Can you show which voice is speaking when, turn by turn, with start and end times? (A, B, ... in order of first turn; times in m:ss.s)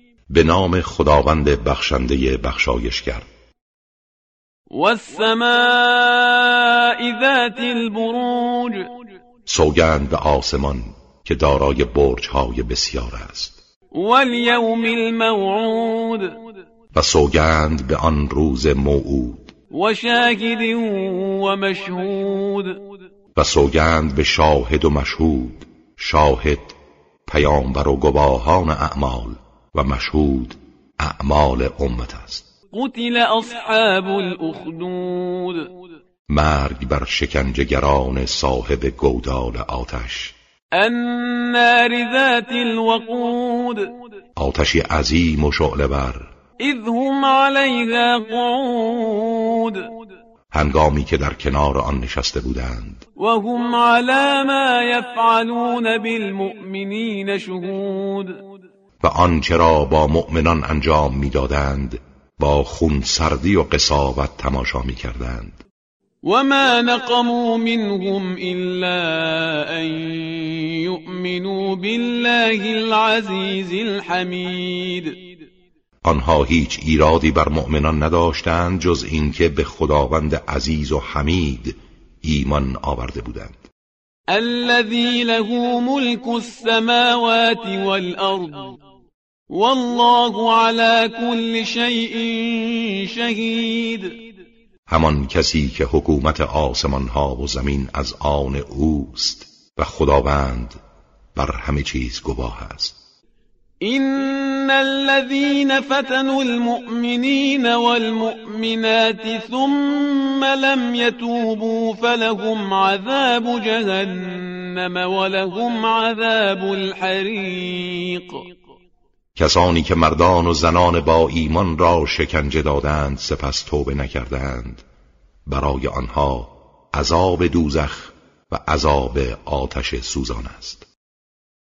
0:00.3-0:03.3 A
0:04.7-0:08.8 B
0:09.4-0:13.6 A
0:13.9-0:16.3 B
0:16.9-0:19.5 A
0:19.7-0:22.7 B
0:23.4-0:32.4 A
0:32.7-0:35.7 B
0:36.3-0:40.4 A
0:40.7-0:43.9 B
0:44.4-0:46.3 A
0:46.6-0:49.9 B
0:50.5-0:53.0 A
0:53.2-0:58.4 B
0:59.0-1:05.6 A
1:06.2-1:15.2 B
1:16.0-1:23.6 A
1:24.3-1:28.8 B
1:29.5-1:34.2 B
1:34.9-1:40.8 A
1:41.3-1:43.0 A
1:43.8-1:58.4 B
1:59.4-2:04.8 A
2:05.4-2:10.8 A